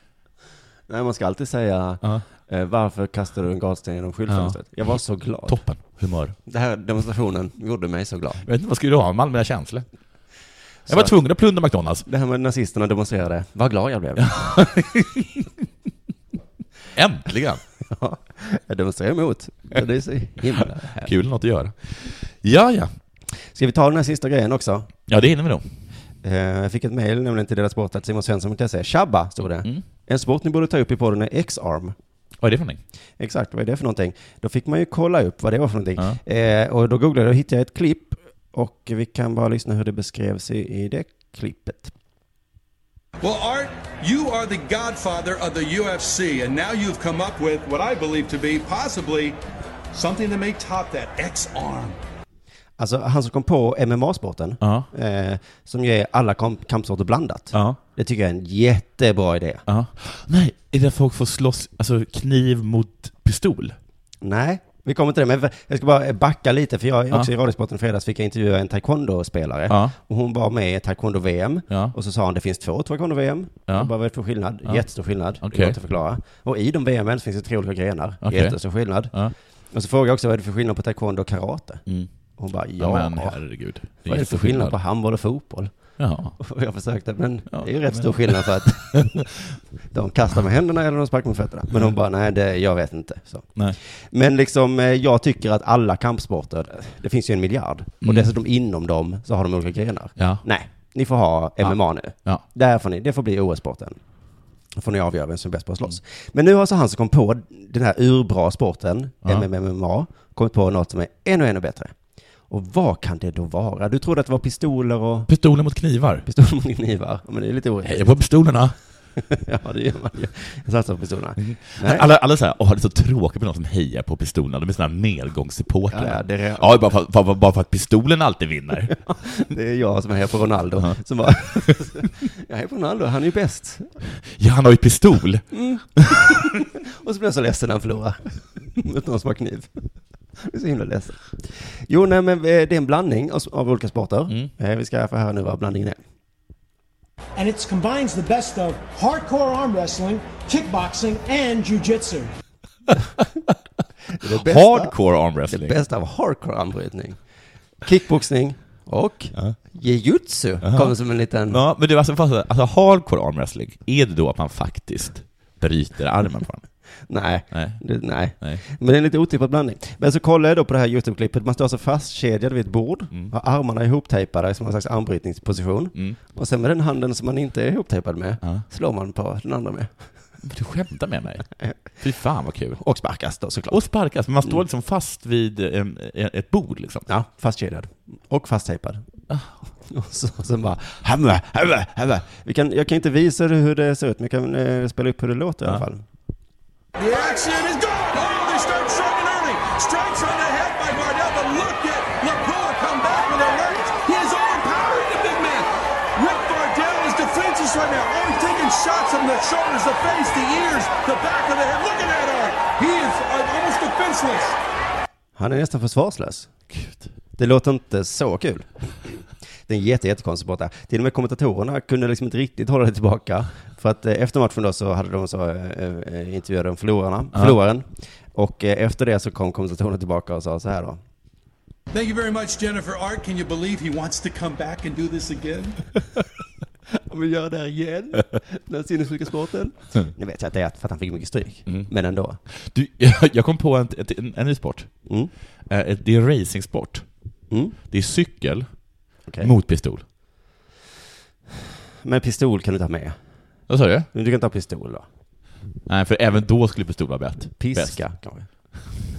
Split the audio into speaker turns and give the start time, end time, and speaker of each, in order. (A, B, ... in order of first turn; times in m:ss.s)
0:00.9-0:05.6 A
0:04.3-0:05.0 B
0:05.5-0:06.3 B
0:06.4-0:08.4 A
0:08.4-0:09.8 B
0:10.8-0:11.1 A
0:10.9-0:12.1 B
0:12.0-0:14.5 A
0:14.2-0:15.5 B
0:16.9-0:17.6 B
0:17.8-0:21.1 A
0:20.5-0:22.9 B
0:23.5-0:24.9 A
0:25.1-0:25.6 B
0:26.2-0:31.9 A
0:32.4-0:32.8 B
0:33.2-0:41.9 A
0:43.2-0:49.4 C
0:49.9-0:52.0 C
0:52.8-0:59.6 A
0:54.6-0:54.9 B
0:57.5-0:57.8 B
0:59.7-1:03.8 B
1:04.2-1:19.1 A
1:09.7-1:09.9 B
1:11.7-1:11.9 B
1:15.4-1:15.8 B
1:18.2-1:18.6 B
1:19.7-1:21.8 A
1:22.4-1:25.7 A
1:22.8-1:24.8 B
1:26.0-1:26.4 B
1:26.4-1:29.3 A
1:27.5-1:29.3 B
1:29.9-1:44.0 A
1:38.0-1:38.3 B
1:40.2-1:40.4 B
1:41.6-1:42.4 B
1:44.8-1:51.9 A
1:52.5-1:55.3 A
1:55.3-1:56.3 B
1:56.2-1:58.2 A
1:57.8-1:58.8 B
1:59.2-2:02.0 A
2:01.4-2:08.9 B
2:05.9-2:06.8 A
2:08.9-2:13.9 A
2:14.2-2:15.4 B
2:15.5-2:19.8 A
2:16.0-2:16.4 B
2:20.4-2:26.0 A
2:27.4-2:32.3 D
2:34.2-2:34.9 A
2:34.2-2:35.8 B
2:35.5-2:37.2 A
2:37.8-2:41.6 A
2:40.6-2:40.9 B
2:41.5-2:46.6 B
2:47.1-2:59.9 A
2:47.5-2:47.8 B
3:00.4-3:02.8 B
3:02.8-3:03.8 A
3:03.7-3:07.0 B
3:07.1-3:09.0 A
3:09.8-3:16.0 A
3:17.0-3:34.6 C
3:35.4-3:36.5 A
3:36.7-3:37.1 B
3:37.4-3:51.0 A
3:51.9-3:55.9 C
3:57.0-4:02.4 A
4:02.5-4:04.9 B
4:05.0-4:05.3 A
4:05.7-4:07.0 B
4:07.5-4:07.8 A
4:07.9-4:08.7 B
4:09.3-4:09.5 A
4:09.4-4:10.0 B
4:12.0-4:13.2 A
4:13.7-4:14.1 B
4:14.1-4:15.0 A
4:15.9-4:18.0 B
4:17.6-4:18.5 A